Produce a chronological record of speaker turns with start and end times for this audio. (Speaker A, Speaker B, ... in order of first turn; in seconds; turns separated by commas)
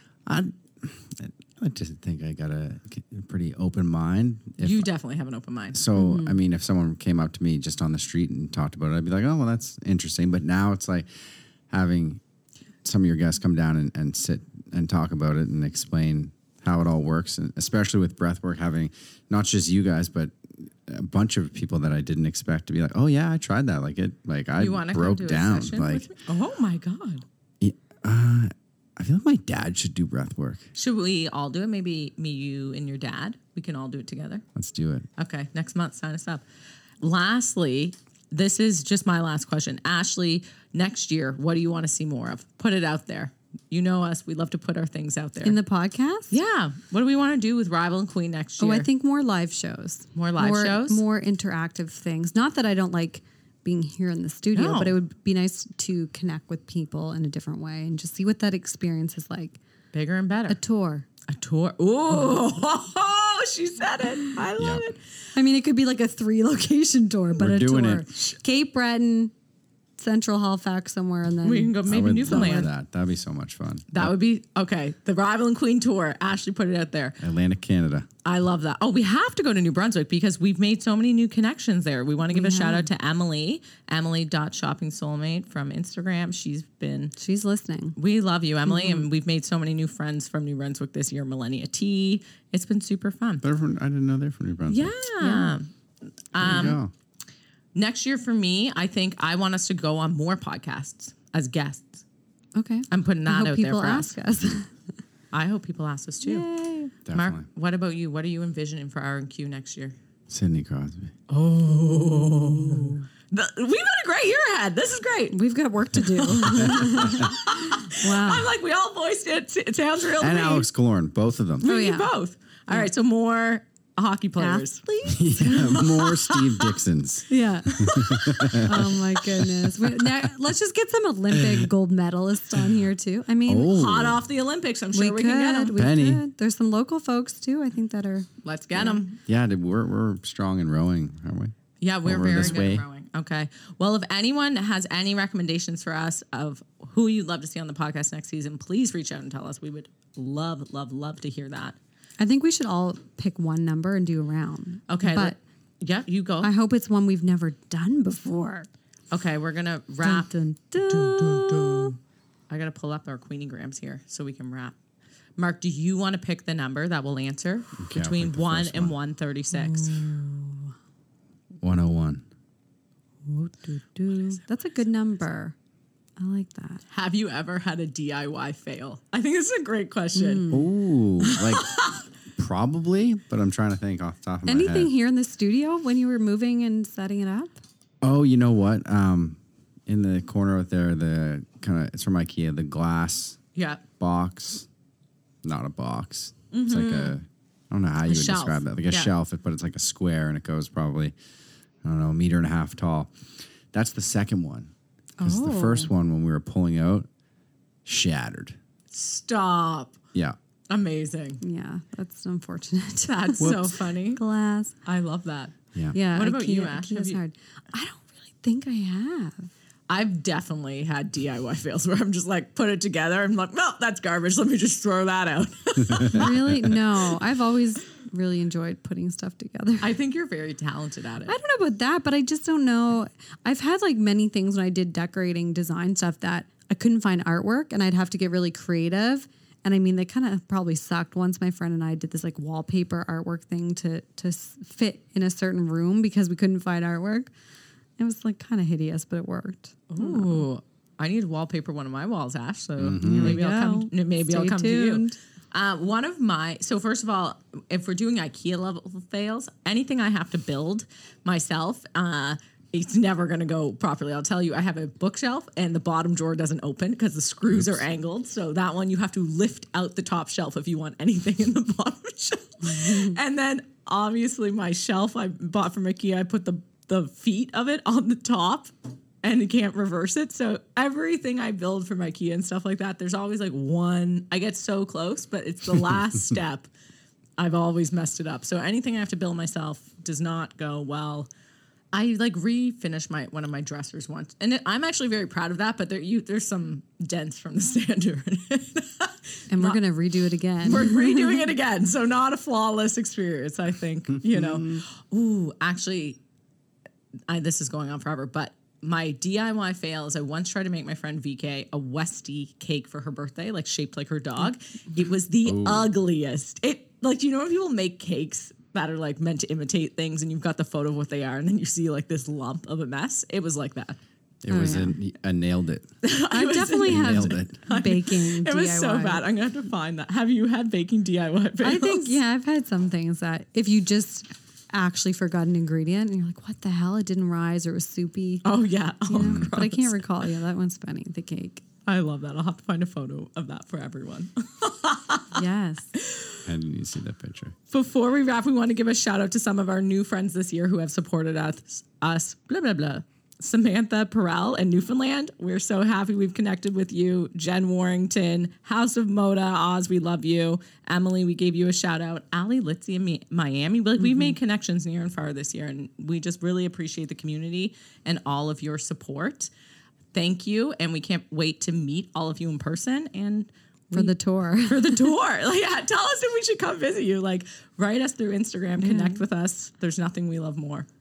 Speaker A: 0.3-4.9, Speaker B: 4.6-5.8, Speaker A: 5.7-11.1, Speaker C: 6.0-6.4, Speaker A: 11.7-12.2, Speaker A: 12.8-26.1, Speaker B: 24.6-27.2, Speaker A: 27.6-30.7, Speaker B: 30.8-34.4, Speaker A: 34.5-35.1, Speaker B: 35.2-36.4, Speaker B: 37.0-45.6, Speaker C: 45.4-46.4, Speaker B: 46.3-48.9, Speaker C: 48.6-59.6, Speaker B: 50.2-51.0, Speaker B: 54.5-55.0, Speaker B: 59.9-60.6, Speaker C: 60.5-61.1, Speaker B: 61.3-65.0, Speaker A: 64.6-64.8, Speaker C: 65.3-69.3, Speaker A: 67.4-68.1, Speaker C: 70.0-71.7, Speaker B: 71.4-72.7, Speaker A: 71.9-74.1, Speaker B: 73.9-77.2, Speaker A: 77.2-78.1, Speaker B: 78.2-87.1, Speaker C: 82.3-82.9, Speaker C: 87.2-88.0, Speaker B: 88.0-93.4, Speaker C: 88.7-89.1, Speaker A: 93.4-95.0, Speaker B: 94.7-95.7, Speaker C: 95.2-95.5, Speaker B: 96.3-96.8, Speaker A: 96.4-96.9, Speaker B: 97.8-102.0, Speaker C: 102.5-104.7, Speaker B: 102.9-104.2, Speaker B: 105.3-106.5, Speaker C: 106.2-106.9, Speaker A: 107.0-107.5, Speaker B: 107.1-110.0, Speaker A: 110.3-111.1, Speaker B: 111.3-115.4, Speaker C: 112.7-113.0, Speaker C: 115.3-118.5, Speaker B: 116.0-120.7, Speaker A: 120.2-121.7, Speaker B: 121.6-124.8, Speaker C: 121.6-122.1, Speaker C: 124.4-126.1, Speaker A: 125.1-130.1, Speaker B: 125.7-126.8, Speaker C: 127.3-127.8, Speaker B: 127.7-128.7, Speaker C: 128.6-133.8, Speaker A: 131.4-131.7, Speaker A: 133.5-134.2, Speaker B: 133.7-135.8, Speaker C: 134.9-139.0, Speaker A: 135.8-136.2, Speaker B: 138.4-139.2, Speaker A: 139.2-141.5, Speaker B: 141.8-151.8, Speaker A: 142.0-142.8, Speaker C: 152.2-155.4, Speaker B: 154.9-156.5, Speaker C: 156.4-158.7, Speaker B: 159.1-160.3, Speaker C: 160.0-161.9, Speaker B: 160.8-162.0, Speaker B: 162.5-164.8, Speaker B: 165.4-170.0, Speaker A: 167.8-168.9, Speaker C: 169.5-170.7, Speaker A: 171.6-172.2, Speaker C: 173.3-175.6, Speaker B: 174.1-174.6, Speaker C: 176.2-176.8, Speaker B: 176.9-180.6, Speaker C: 180.2-180.6, Speaker A: 180.5-184.9, Speaker B: 181.2-182.1, Speaker C: 184.5-187.6, Speaker A: 188.0-193.4, Speaker B: 193.6-193.8, Speaker A: 194.0-194.7, Speaker A: 195.4-201.1, Speaker B: 196.5-197.2, Speaker B: 198.1-199.1, Speaker A: 201.8-203.1, Speaker A: 203.7-207.1, Speaker C: 205.2-205.9, Speaker A: 207.8-208.6, Speaker B: 208.9-210.0, Speaker B: 210.7-211.4, Speaker C: 211.4-214.8, Speaker B: 213.1-214.2, Speaker A: 213.4-213.8, Speaker B: 214.8-215.6, Speaker C: 215.9-219.5, Speaker B: 216.1-217.2, Speaker B: 219.9-226.6, Speaker C: 226.1-229.9, Speaker B: 229.8-231.3, Speaker C: 231.3-247.3, Speaker C: 248.0-250.5, Speaker B: 249.9-278.7, Speaker A: 252.8-253.4, Speaker C: 253.0-255.2, Speaker C: 272.6-273.2, Speaker B: 279.2-286.7, Speaker B: 287.4-291.3, Speaker B: 291.9-299.8, Speaker C: 299.5-301.5, Speaker B: 300.6-306.2, Speaker A: 304.3-304.8, Speaker B: 307.3-324.0, Speaker A: 315.4-315.9, Speaker A: 324.4-325.9, Speaker C: 324.5-325.0, Speaker B: 326.0-332.2, Speaker C: 326.3-329.2, Speaker A: 326.9-327.6, Speaker C: 331.6-338.4, Speaker B: 338.4-340.1, Speaker C: 339.1-341.6, Speaker A: 339.1-339.5, Speaker B: 341.9-345.4, Speaker C: 345.3-345.9, Speaker B: 345.9-346.4, Speaker A: 346.4-347.6, Speaker B: 347.7-369.5, Speaker B: 370.1-380.9, Speaker C: 373.9-375.1, Speaker C: 378.8-379.2